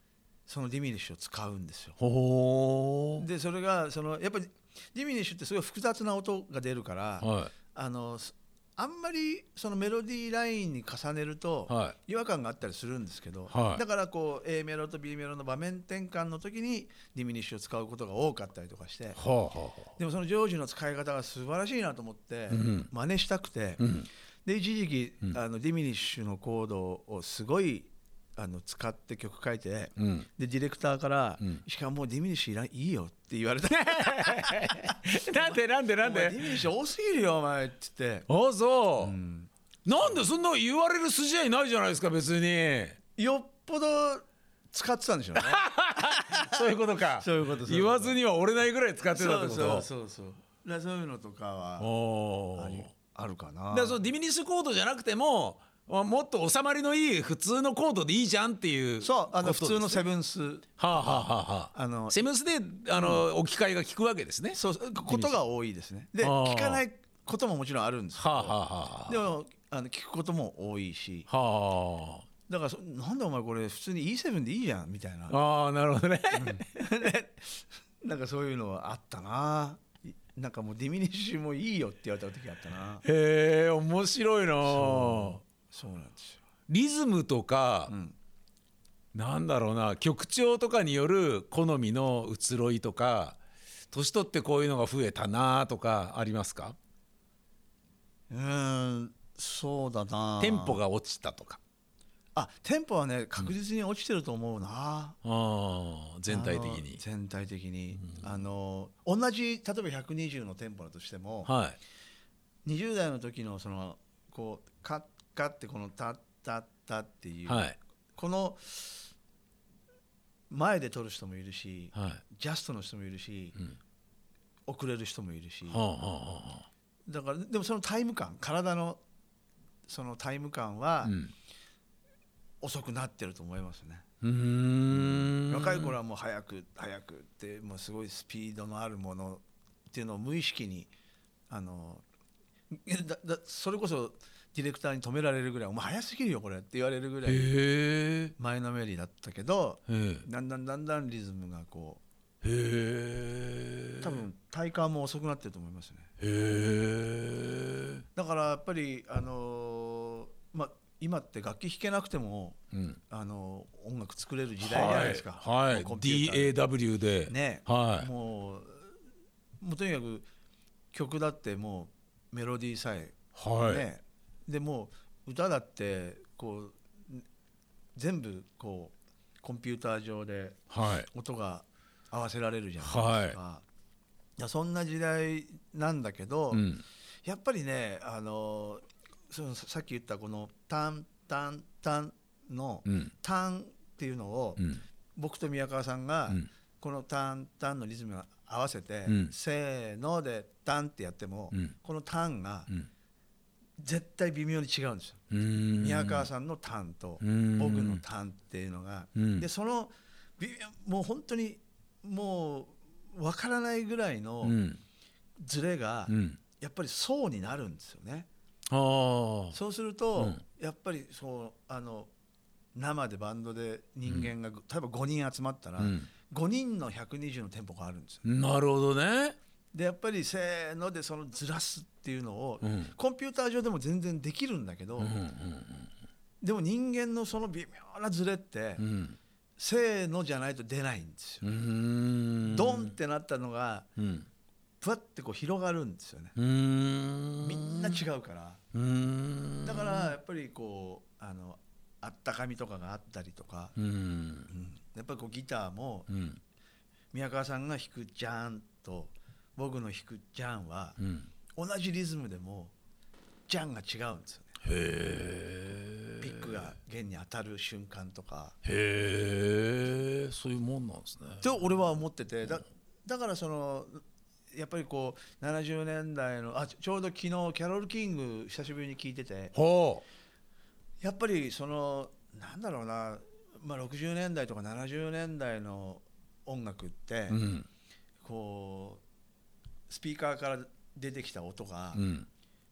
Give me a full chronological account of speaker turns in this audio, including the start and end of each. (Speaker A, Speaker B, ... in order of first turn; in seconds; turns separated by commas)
Speaker A: 0.5-2.0, Speaker B: 2.0-3.3, Speaker A: 3.2-19.2, Speaker B: 7.2-7.5, Speaker B: 11.7-12.0, Speaker B: 13.5-13.8, Speaker B: 19.2-19.9, Speaker A: 20.0-23.8, Speaker B: 22.5-22.9, Speaker B: 23.8-24.1, Speaker A: 24.4-38.3, Speaker B: 30.0-30.3, Speaker B: 33.7-36.6, Speaker B: 38.3-39.2, Speaker A: 39.0-40.2, Speaker B: 39.9-43.0, Speaker A: 43.2-48.2, Speaker B: 45.4-49.9, Speaker A: 49.1-51.9, Speaker B: 51.8-52.9, Speaker A: 52.5-54.0, Speaker B: 53.7-60.0, Speaker A: 59.0-62.2, Speaker B: 60.8-65.4, Speaker A: 63.0-63.3, Speaker A: 64.5-71.3, Speaker B: 66.2-66.8, Speaker B: 68.2-69.2, Speaker B: 71.3-72.3, Speaker A: 72.5-75.3, Speaker B: 75.3-76.7, Speaker A: 76.3-83.0, Speaker B: 83.0-85.4, Speaker A: 84.6-86.4, Speaker B: 86.7-87.9, Speaker A: 87.9-88.2, Speaker B: 89.1-93.4, Speaker B: 93.9-96.8, Speaker A: 98.3-100.8, Speaker B: 100.4-101.6, Speaker A: 102.3-105.2, Speaker B: 105.2-107.0, Speaker A: 106.3-111.5, Speaker B: 111.5-111.8, Speaker A: 112.7-117.7, Speaker B: 117.5-117.8, Speaker A: 118.2-119.1, Speaker A: 120.5-123.6, Speaker B: 122.0-122.2, Speaker A: 124.7-125.8, Speaker B: 125.7-126.7, Speaker A: 127.1-129.0, Speaker A: 129.9-131.2, Speaker B: 131.0-131.3, Speaker A: 132.6-134.1, Speaker B: 134.2-136.0, Speaker A: 134.9-140.9, Speaker A: 141.5-142.0, Speaker A: 142.7-147.5, Speaker B: 147.2-148.3, Speaker A: 148.4-152.0, Speaker B: 149.9-150.3, Speaker B: 152.4-154.2, Speaker A: 154.0-156.1, Speaker B: 156.2-158.0, Speaker A: 158.2-162.6, Speaker B: 162.7-163.0, Speaker A: 163.1-166.6, Speaker B: 164.6-168.1, Speaker A: 167.3-168.9, Speaker A: 169.6-170.3, Speaker A: 170.9-177.2, Speaker B: 173.3-173.9, Speaker A: 177.9-183.7, Speaker B: 180.7-181.1, Speaker B: 182.8-183.4, Speaker A: 184.4-186.7, Speaker B: 186.5-186.8, Speaker A: 187.2-202.7, Speaker B: 192.9-193.1, Speaker B: 194.6-194.8, Speaker B: 199.1-199.3, Speaker A: 203.8-205.2, Speaker B: 205.3-206.3, Speaker A: 205.8-214.6, Speaker B: 207.2-208.0, Speaker B: 209.2-209.5, Speaker B: 214.4-214.8, Speaker A: 215.4-218.3, Speaker B: 216.1-216.4, Speaker B: 218.7-219.6, Speaker A: 219.5-222.1, Speaker B: 220.2-220.4, Speaker A: 222.7-228.2, Speaker B: 225.8-226.1, Speaker B: 228.2-229.4, Speaker A: 229.7-235.2, Speaker B: 232.6-232.9, Speaker B: 235.0-235.9, Speaker A: 236.4-238.8, Speaker B: 238.8-239.2, Speaker A: 239.6-241.5, Speaker B: 241.4-242.9, Speaker A: 242.4-243.9, Speaker B: 244.0-244.3, Speaker A: 244.8-246.3, Speaker B: 246.4-248.0, Speaker A: 247.4-248.6, Speaker B: 248.7-250.1, Speaker A: 249.6-253.7, Speaker B: 253.8-254.5, Speaker A: 254.5-256.1, Speaker B: 256.1-256.4, Speaker A: 257.1-261.0, Speaker B: 261.0-261.3, Speaker A: 261.6-262.7, Speaker A: 263.5-264.6, Speaker B: 264.6-266.7, Speaker A: 266.2-268.6, Speaker B: 268.6-271.5, Speaker A: 271.4-279.5, Speaker B: 279.5-280.0, Speaker A: 281.0-287.4, Speaker B: 287.3-287.7, Speaker A: 288.2-289.0, Speaker A: 289.9-292.0, Speaker B: 291.9-292.3